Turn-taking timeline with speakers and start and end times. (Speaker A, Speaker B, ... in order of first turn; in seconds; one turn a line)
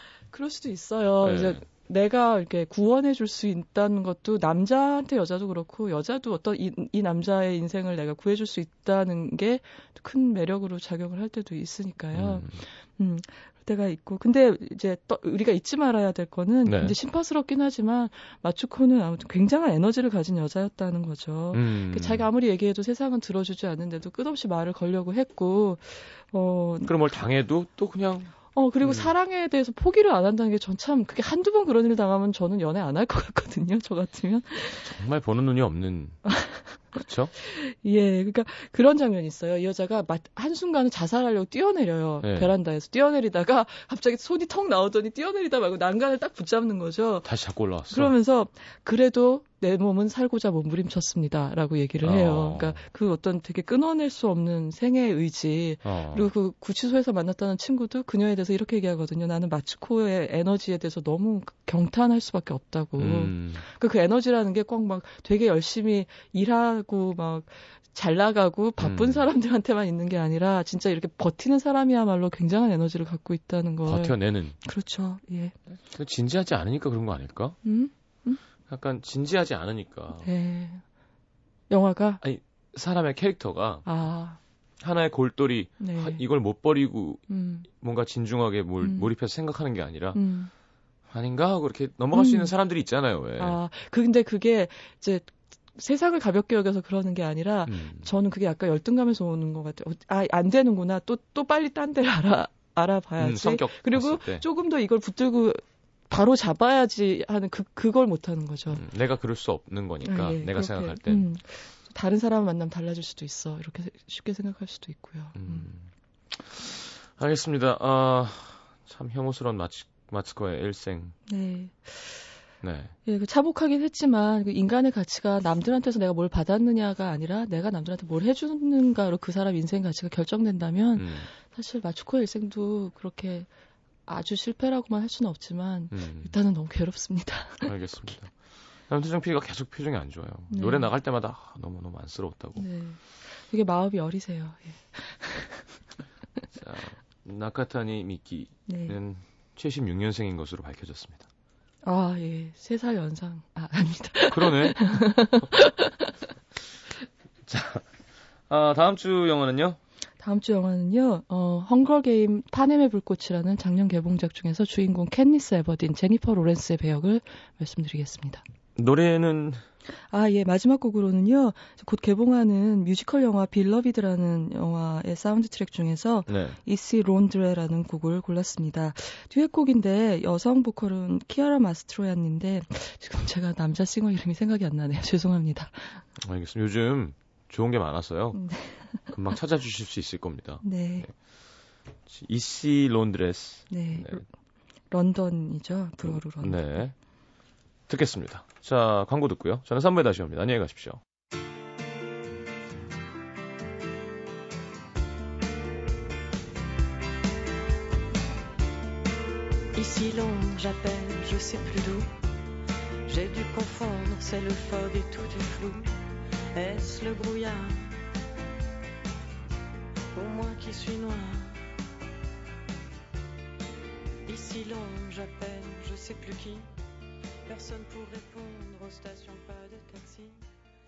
Speaker A: 0.3-26.9
Speaker B: 1.2-1.6
Speaker B: 12.1-12.6
Speaker B: 16.6-16.9
Speaker B: 21.5-22.2
Speaker B: 26.8-29.1
Speaker A: 28.5-34.9
Speaker B: 34.8-36.2
Speaker A: 36.2-36.8
Speaker B: 36.9-37.3
Speaker A: 37.3-47.3
Speaker B: 42.2-42.5
Speaker B: 47.2-48.1
Speaker A: 47.9-75.5
Speaker B: 52.0-52.8
Speaker B: 55.8-56.3
Speaker B: 63.0-63.6
Speaker B: 68.8-69.2
Speaker B: 73.8-74.5
Speaker B: 75.9-77.5
Speaker A: 77.6-78.4
Speaker B: 78.7-80.3
Speaker A: 80.2-80.8
Speaker A: 81.7-82.2
Speaker B: 82.2-83.8
Speaker A: 83.8-84.4
Speaker B: 84.8-90.2
Speaker A: 85.8-86.2
Speaker A: 87.3-87.7
Speaker A: 88.8-89.1
Speaker A: 90.1-90.5
Speaker B: 91.1-93.6
Speaker A: 92.1-92.5
Speaker A: 93.4-108.8
Speaker B: 97.7-98.1
Speaker B: 103.2-104.4
Speaker B: 108.7-111.3
Speaker A: 110.0-115.7
Speaker B: 115.3-121.1
Speaker A: 121.3-122.3
Speaker B: 122.6-122.9
Speaker A: 123.0-133.5
Speaker B: 130.9-131.3
Speaker A: 134.1-137.8
Speaker B: 135.9-136.3
Speaker B: 137.6-138.3
Speaker B: 138.9-142.7
Speaker A: 140.5-140.9
Speaker A: 142.6-145.6
Speaker B: 146.6-151.3
Speaker A: 148.7-149.0
Speaker A: 151.8-156.1
Speaker B: 154.3-154.9
Speaker B: 157.5-157.9
Speaker B: 158.5-159.8
Speaker A: 160.2-168.4
Speaker B: 168.8-169.6
Speaker A: 170.1-186.0
Speaker B: 176.3-176.6
Speaker B: 186.2-188.4
Speaker A: 188.3-189.0
Speaker B: 189.1-191.1
Speaker A: 190.6-191.1
Speaker B: 192.1-194.2
Speaker A: 193.7-194.2
Speaker A: 194.9-196.8
Speaker B: 196.0-196.9
Speaker B: 197.9-201.0
Speaker C: 209.7-212.2
Speaker C: 213.1-215.9
Speaker C: 216.5-217.9
Speaker C: 220.1-221.7
Speaker C: 224.2-226.7
Speaker C: 227.4-230.5